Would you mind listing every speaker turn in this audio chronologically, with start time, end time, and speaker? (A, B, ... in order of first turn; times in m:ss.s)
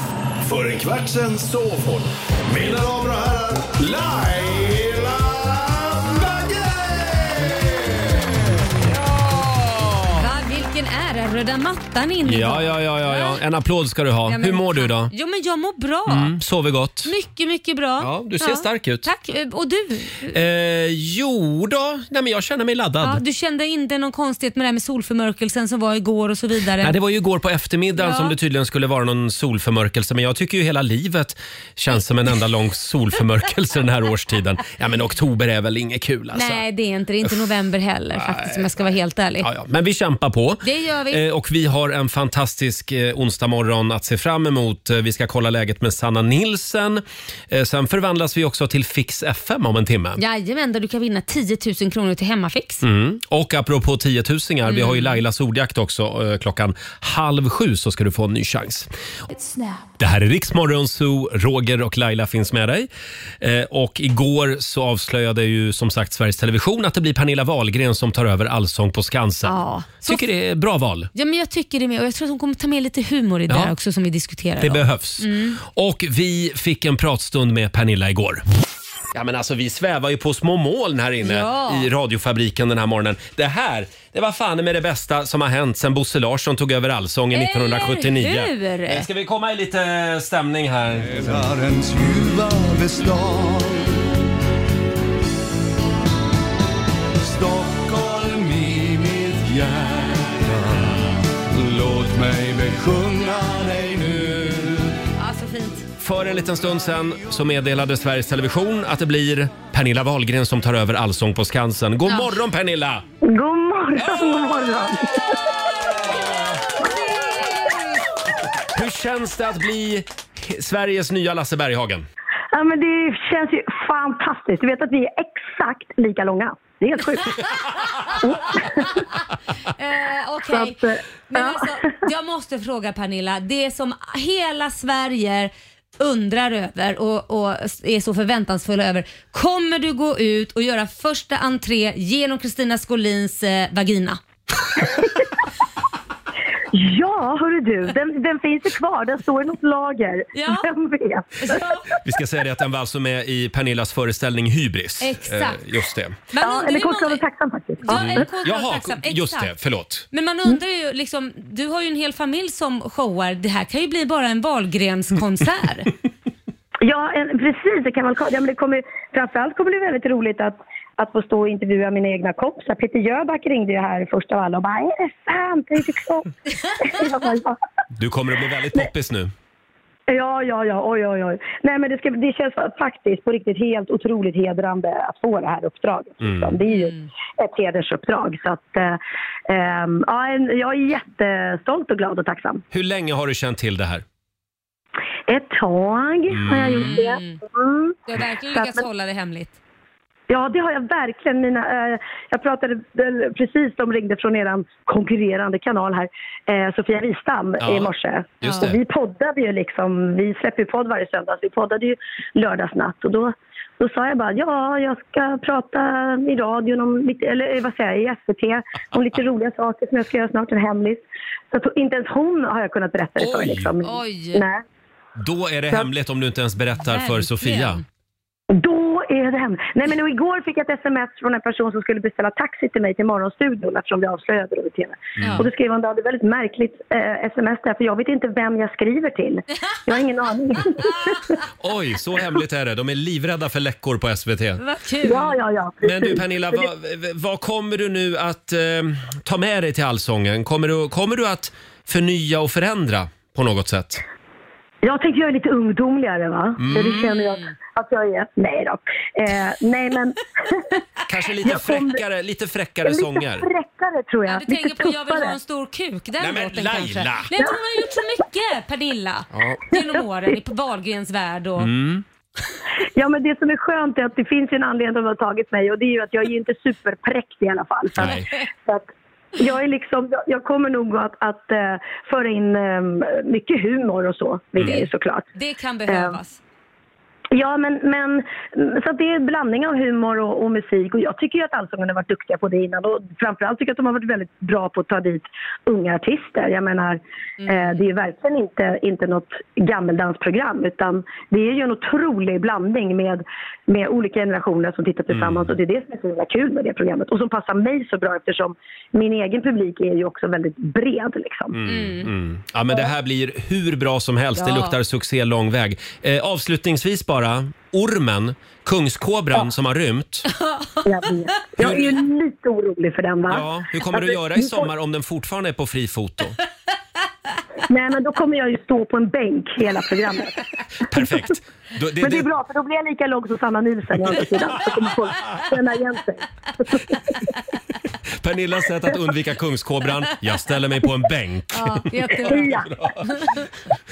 0:00.4-0:08.2 A
0:10.1-0:13.4 B
0:12.2-0:15.1 C
0:14.3-0:16.3 B
0:16.1-0:17.1 C
0:17.0-0:20.4 B
0:18.0-0:19.1 C
0:20.3-0:23.2 C
0:23.0-0:26.9 B
0:26.8-0:36.6 C
0:28.0-0:28.3 B
0:36.3-0:39.5 B
0:38.2-0:38.6 C
0:39.4-0:50.2 C
0:40.6-0:41.2 B
0:50.2-0:52.8 B
0:52.8-0:58.9 C
0:54.6-0:55.2 B
0:59.3-0:59.8 B
1:00.0-1:02.9 C
1:03.4-1:11.1 C
1:09.4-1:10.3 B
1:11.1-1:15.6 B
1:14.6-1:18.4 C
1:19.1-1:31.4 C
1:21.2-1:21.9 B
1:27.3-1:29.0 B
1:31.1-1:33.9 A
1:37.2-1:44.9 A
1:45.2-1:45.8 B
1:46.0-1:53.0 C
1:52.1-1:52.3 B
1:53.2-1:55.4 D
1:58.7-2:02.1 C
2:02.5-2:09.0 D
2:09.7-2:24.2 B
2:10.5-2:11.6 D
2:26.7-2:31.6 D
2:30.3-2:30.7 B
2:31.4-2:31.8 B
2:32.0-2:36.2 C
2:35.0-2:35.6 B
2:36.3-2:37.2 B
2:36.4-2:38.2 D
2:37.8-2:39.5 B
2:37.9-2:40.0 C
2:40.1-2:45.9 B
2:46.8-2:57.6 D
2:58.0-2:59.3 C
3:00.1-3:09.0 D
3:06.2-3:06.6 C
3:06.7-3:07.0 B
3:09.5-3:12.6 D
3:12.7-3:14.0 C
3:15.3-3:18.0 D
3:16.3-3:16.9 C
3:16.7-3:17.4 B
3:18.1-3:19.6 B
3:18.5-3:18.8 D
3:20.3-3:44.6 D
3:27.6-3:28.8 C
3:43.2-3:43.7 C
3:43.8-3:44.4 B
3:45.2-3:47.8 C
3:46.8-3:47.8 B
3:48.5-4:01.2 D
3:55.2-3:55.5 C
3:55.2-3:55.4 B
4:01.6-4:04.6 C
4:04.6-4:05.3 B
4:05.0-4:06.6 D
4:05.8-4:14.0 C
4:14.8-4:20.8 D
4:16.6-4:17.0 C
4:16.7-4:17.5 B
4:21.1-4:23.5 C
4:21.4-4:22.0 D
4:22.8-4:25.3 D
4:24.2-4:31.7 B
4:26.2-4:27.3 C
4:29.3-4:29.6 C
4:31.6-4:32.0 C
4:33.0-4:45.2 D
4:37.9-4:38.3 C
4:44.6-4:44.8 C
4:45.3-4:46.4 B
4:45.9-4:46.1 D
4:47.3-5:11.6 D
4:57.4-4:57.7 B
5:05.1-5:05.5 C
5:11.5-5:20.3 C
5:11.6-5:12.1 B
5:14.4-5:14.8 B
5:20.4-5:20.9 B
5:20.8-5:24.7 D
5:21.6-5:22.0 C
5:23.3-5:26.4 C
5:27.7-5:30.4 D
5:30.9-5:32.3 C
5:32.0-5:37.2 D
5:38.2-5:43.1 C
5:41.5-5:43.4 B
5:42.3-5:42.7 D